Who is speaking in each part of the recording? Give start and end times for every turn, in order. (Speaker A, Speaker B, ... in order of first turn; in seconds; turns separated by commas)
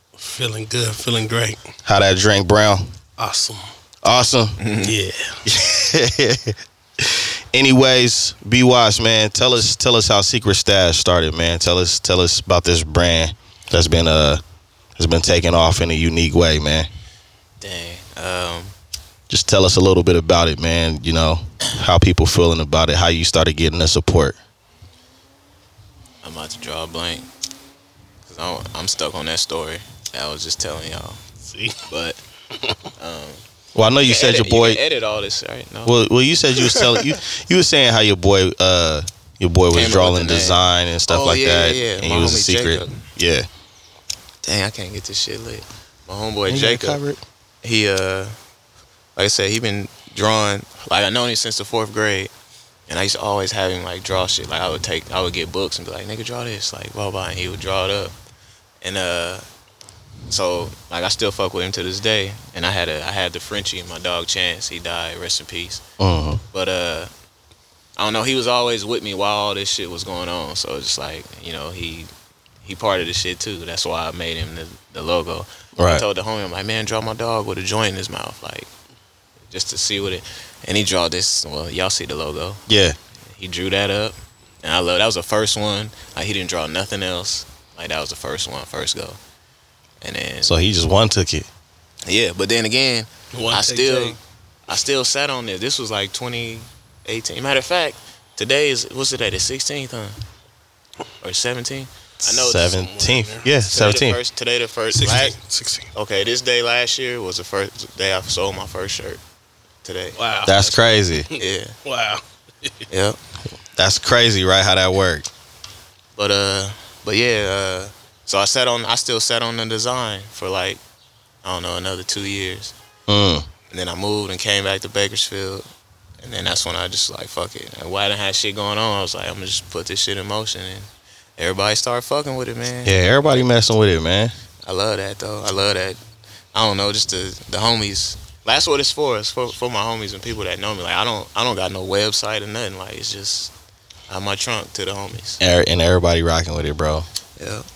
Speaker A: 0.2-1.7, Speaker B: 1.8-2.9, Speaker A: 3.2-3.7, Speaker B: 4.0-4.6, Speaker C: 4.6-4.9, Speaker A: 4.8-5.4, Speaker B: 5.4-14.4, Speaker B: 15.0-16.9, Speaker C: 17.6-18.7, Speaker B: 19.3-24.4, Speaker C: 26.2-27.3, Speaker C: 28.2-31.2, Speaker A: 31.4-31.8, Speaker C: 31.9-32.2, Speaker C: 33.0-33.4, Speaker B: 33.7-34.8, Speaker C: 34.0-36.0, Speaker B: 35.9-43.5, Speaker C: 36.5-37.0, Speaker C: 39.7-43.0, Speaker C: 44.4-47.0, Speaker B: 46.5-47.2, Speaker C: 47.6-48.4, Speaker C: 49.1-52.3, Speaker C: 52.9-58.1, Speaker C: 58.8-59.4, Speaker C: 60.3-65.8, Speaker B: 66.0-66.4, Speaker C: 66.5-67.1, Speaker C: 68.0-72.1, Speaker C: 72.6-78.7, Speaker B: 75.8-76.0, Speaker C: 79.5-82.6, Speaker B: 82.7-83.0, Speaker C: 83.3-89.2, Speaker C: 90.0-90.6, Speaker B: 90.4-91.5, Speaker C: 92.1-94.2, Speaker A: 93.3-94.2, Speaker C: 94.7-100.2, Speaker C: 101.2-102.8, Speaker B: 102.3-104.2, Speaker A: 102.5-103.5, Speaker C: 103.6-105.3, Speaker A: 104.9-105.9, Speaker C: 105.9-109.2, Speaker C: 109.8-110.8, Speaker A: 110.2-110.6, Speaker B: 110.4-111.3, Speaker C: 111.3-111.8, Speaker A: 111.4-112.8, Speaker C: 112.9-113.2, Speaker B: 113.8-115.3, Speaker C: 116.2-120.8, Speaker C: 121.4-122.7, Speaker B: 123.1-123.5, Speaker C: 123.7-125.7, Speaker C: 126.2-133.0, Speaker B: 132.8-134.3, Speaker C: 134.6-136.0, Speaker C: 136.5-143.5, Speaker C: 144.1-145.4, Speaker B: 145.4-147.0, Speaker C: 147.4-147.7